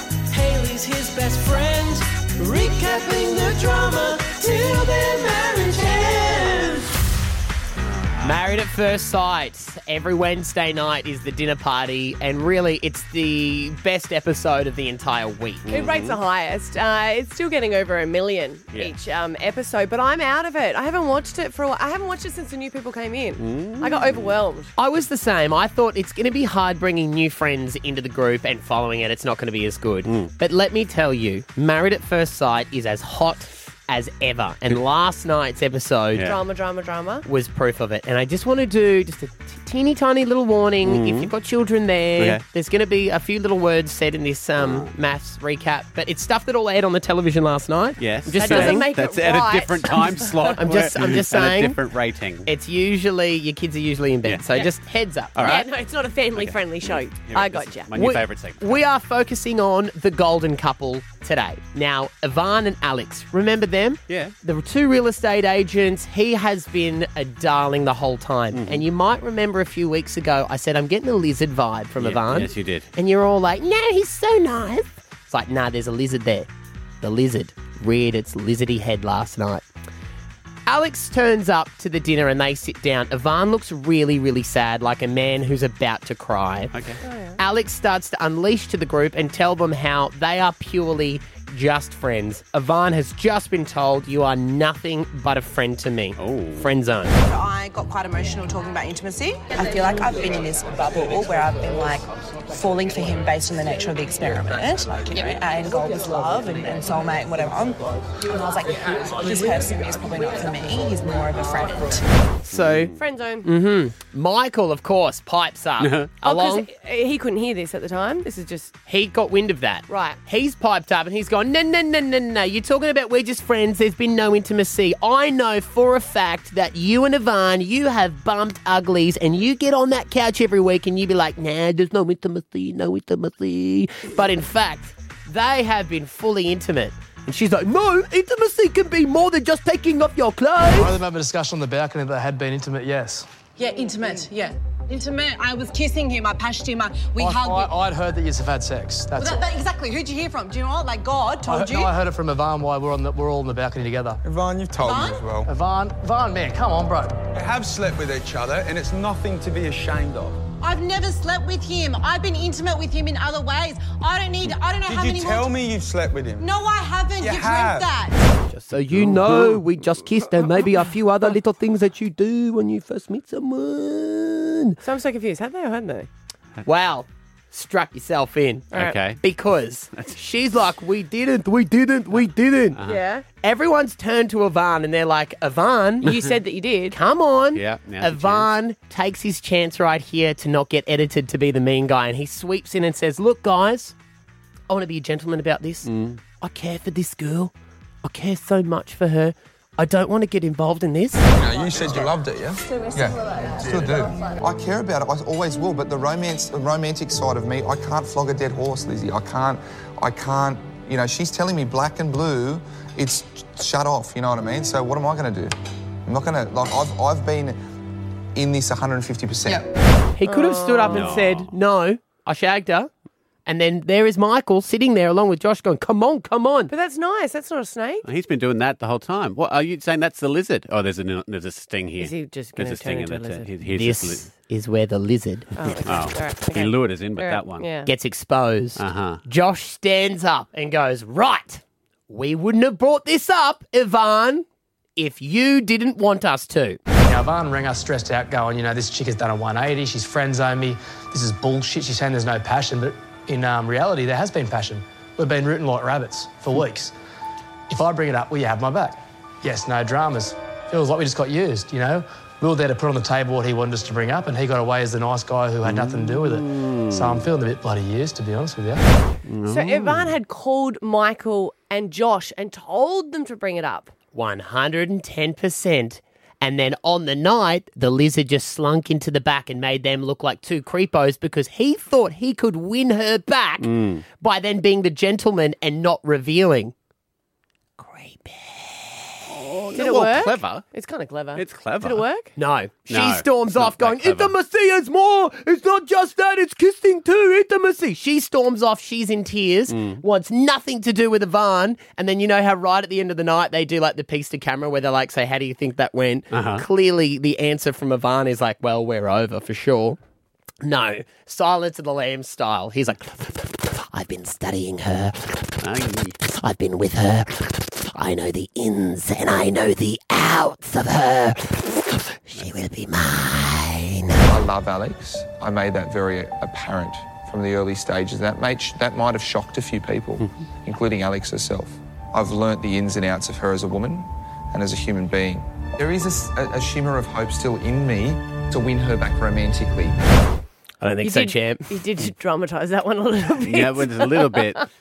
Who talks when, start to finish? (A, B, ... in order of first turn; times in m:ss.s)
0:00.3-0:05.6 A
0:02.5-0:06.7 B
0:07.8-0:08.4 C
0:08.2-0:15.8 A
0:15.7-0:16.2 C
0:15.7-0:24.7 D
0:23.4-0:24.4 C
0:24.8-0:36.3 A
0:30.0-0:30.3 C
0:36.2-0:36.4 C
0:36.2-0:37.2 D
0:37.3-0:48.9 A
0:40.8-0:41.3 C
0:42.2-0:42.4 C
0:44.6-0:44.9 C
0:48.0-0:52.5 C
0:48.3-0:50.7 D
0:50.6-0:51.8 A
0:52.4-0:55.6 A
0:54.2-0:54.7 C
0:55.4-0:55.7 C
0:55.4-0:58.0 D
0:56.3-0:58.8 C
0:58.0-1:16.5 A
1:04.1-1:04.3 C
1:08.6-1:08.8 C
1:12.0-1:12.9 C
1:17.0-1:19.6 A
1:20.7-1:26.7 A
1:26.7-1:27.0 C
1:27.0-1:27.4 D
1:27.4-1:37.2 A
1:36.2-1:36.7 C
1:37.2-1:52.0 E
1:52.4-1:52.9 A
1:52.5-1:53.0 C
1:53.0-1:53.5 D
1:53.4-1:56.7 A
1:55.8-1:56.1 C
1:56.2-1:58.7 D
1:58.9-2:21.0 A
1:59.9-2:00.2 D
2:20.7-2:23.3 F
2:23.6-2:27.7 E
2:27.2-2:29.4 F
2:29.2-2:32.0 E
2:31.5-2:34.2 F
2:34.2-2:35.4 G
2:34.7-2:35.4 H
2:34.8-2:35.2 E
2:35.4-2:37.2 F
2:37.3-2:40.4 G
2:40.6-2:45.5 E
2:44.8-2:46.5 G
2:46.4-2:48.3 E
2:47.2-2:48.0 G
2:48.5-2:49.6 C
2:48.7-2:54.8 A
2:54.8-2:56.1 D
2:56.6-3:02.8 A
2:58.7-2:59.0 D
2:58.7-2:59.2 C
3:02.8-3:03.0 C
3:02.8-3:03.2 D
3:03.4-3:06.1 A
3:06.0-3:07.0 D
3:06.9-3:14.0 A
3:07.6-3:08.5 C
3:14.7-3:15.9 A
3:15.8-3:16.2 C
3:16.4-3:17.5 A
3:18.0-3:21.2 A
3:21.3-3:35.5 H
3:21.3-3:22.2 G
3:36.1-3:37.6 H
3:38.4-3:39.7 H
3:40.2-3:42.9 A
3:40.2-3:41.2 D
3:40.9-3:41.5 C
3:43.5-3:46.7 A
3:46.7-3:48.1 D
3:48.0-3:54.3 C
3:52.0-3:53.6 D
3:53.7-3:55.5 A
3:55.5-3:57.9 D
3:55.6-3:57.7 C
3:57.9-4:06.8 A
3:58.8-3:59.2 C
4:07.0-4:16.9 F
4:17.7-4:28.8 F
4:25.6-4:27.2 C
4:29.3-4:30.2 C
4:29.4-4:33.9 D
4:34.1-4:46.7 A
4:43.6-4:44.0 C
4:47.8-4:49.2 A
4:49.3-4:50.6 C
4:49.7-4:52.4 D
4:51.4-4:52.0 C
4:52.4-5:10.0 A
4:52.9-4:54.3 C
4:59.7-5:00.0 C
5:06.3-5:06.6 C
5:10.6-5:15.6 A
5:15.6-5:16.2 C
5:16.3-5:24.2 A
5:24.3-5:40.0 H
5:40.8-5:41.8 A
5:41.0-5:44.6 D
5:43.4-5:44.7 C